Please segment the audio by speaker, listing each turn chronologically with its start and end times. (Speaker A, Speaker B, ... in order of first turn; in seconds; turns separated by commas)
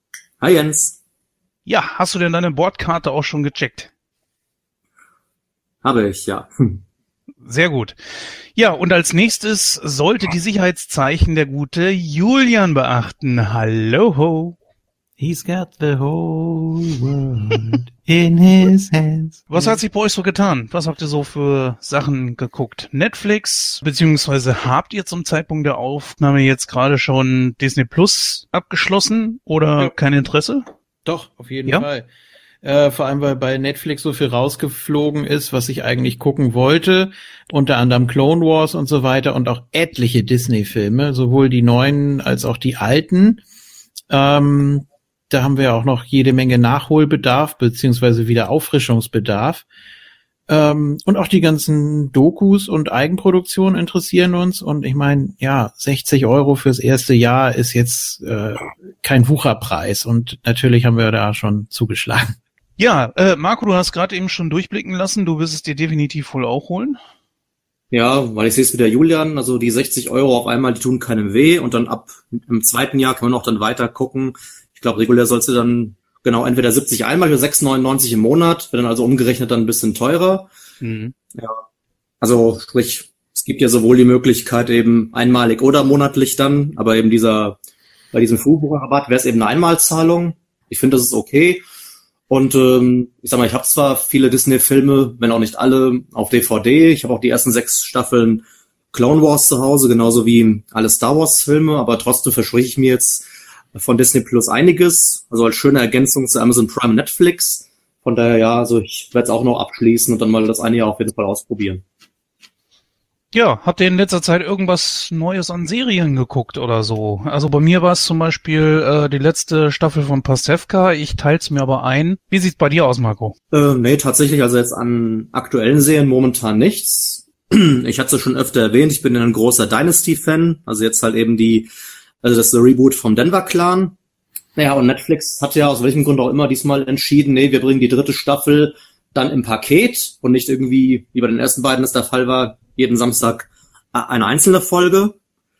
Speaker A: 0.4-1.0, Speaker B: 1.7-3.9, Speaker A: 5.8-6.8, Speaker B: 7.5-8.0, Speaker B: 8.5-14.6, Speaker C: 15.2-19.8, Speaker B: 19.5-30.6, Speaker C: 31.1-32.1, Speaker C: 32.6-43.4, Speaker C: 44.1-49.7, Speaker C: 50.5-62.4, Speaker B: 62.8-67.0, Speaker A: 67.9-80.5, Speaker B: 80.8-81.1, Speaker A: 81.3-81.6, Speaker A: 82.2-87.6, Speaker A: 88.1-91.6, Speaker A: 92.3-111.8, Speaker B: 113.3-123.4, Speaker A: 123.5-131.7, Speaker A: 132.2-134.0, Speaker A: 134.6-145.2